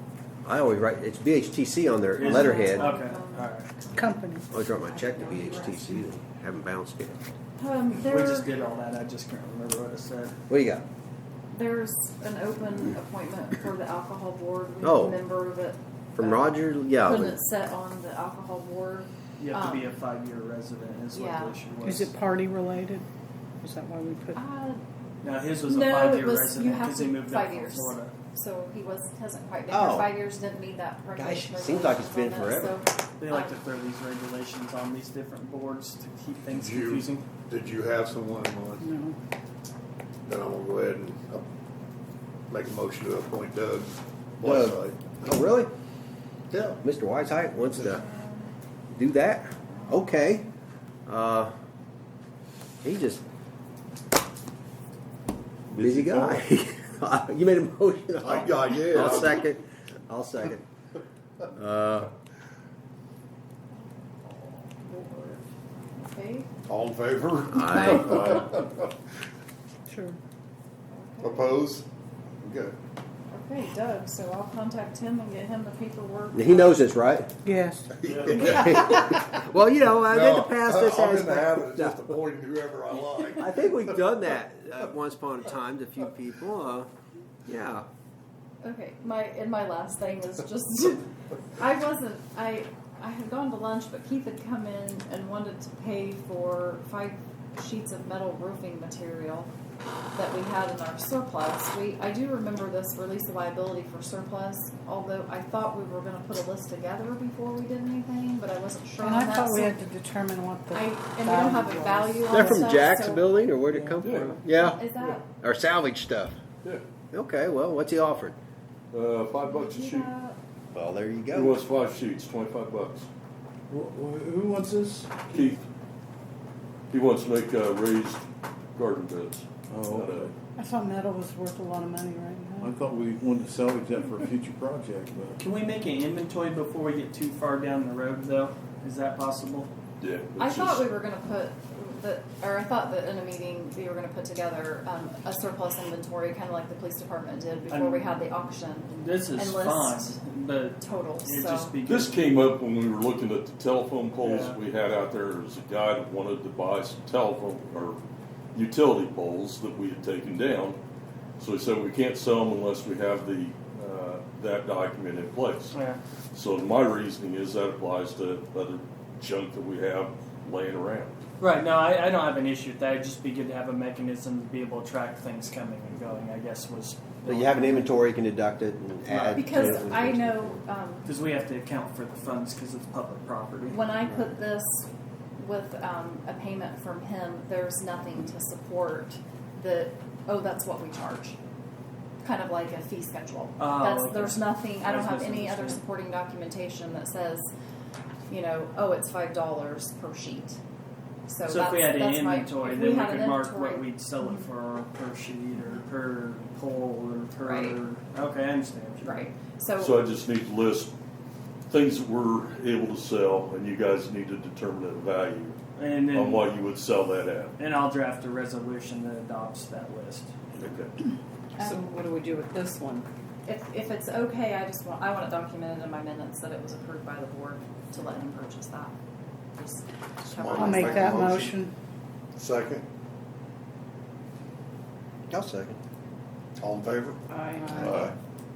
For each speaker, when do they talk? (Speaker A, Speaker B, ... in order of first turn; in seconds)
Speaker A: 0.5-2.9, 4.5-7.3, 10.5-10.8, 14.8-15.2, 16.2-17.4, 29.7-30.1, 31.2-32.8, 44.4-45.7, 46.8-48.0, 48.9-50.5, 51.1-51.5, 52.8-53.2, 55.8-60.6, 61.5-62.1, 67.5-68.4, 76.3-77.3, 78.3-82.2, 83.4-86.9, 87.5-87.9, 112.3-114.8, 115.4-116.4, 117.1-118.4, 120.7-121.6, 177.2-180.6, 235.3-235.8
Speaker B: 2.2-6.0, 7.6-8.6, 11.5-19.9, 21.1-21.6, 24.4-24.8, 25.6-33.5, 48.0-48.5, 63.7-66.5, 67.7-68.0, 70.9-71.6, 73.3-76.8, 78.3-79.1, 88.6-99.5, 100.2-109.8, 110.7-113.5, 114.0-115.3, 119.4-120.4, 140.4-150.2, 150.8-151.8, 179.4-181.1, 183.7-191.4, 192.2-197.5, 198.3-200.6, 201.3-204.5, 207.4-207.8, 209.0-210.0, 221.6-221.9, 223.0-228.9, 229.6-231.3
Speaker C: 2.2-3.7, 8.1-10.4, 19.4-22.1, 25.2-28.1, 33.2-37.3, 78.1-78.5, 135.4-139.7, 147.7-148.2, 148.9-152.2, 154.2-154.6, 165.7-166.0, 171.4-178.0, 179.1-179.8, 181.0-183.8, 193.6-195.8, 201.5-209.3, 215.8-216.5, 217.6-220.3
Speaker D: 4.0-4.5, 21.8-23.1, 23.6-24.4, 38.8-39.2, 69.9-70.2, 77.5-77.9, 109.0-112.8, 130.6-132.8, 221.7-222.0, 230.5-231.7, 237.3-237.9
Speaker E: 36.6-38.9, 40.3-41.5, 42.5-45.2, 46.5-46.8, 58.2-59.4, 66.7-68.9, 71.2-71.9, 72.4-72.8, 77.9-78.9, 80.1-83.9, 230.3-231.6, 232.4-232.8, 236.6-237.2, 237.8-238.1
Speaker F: 55.7-56.5, 123.7-125.6, 129.7-130.3, 132.6-135.4
Speaker G: 113.7-115.2, 118.9-120.1, 121.3-123.1, 125.3-125.6, 126.9-128.2, 128.8-130.3, 140.0-140.9, 151.9-158.0, 158.5-160.8, 161.4-165.7, 166.3-171.2, 209.8-210.9, 211.7-215.6, 216.1-217.6, 220.5-220.9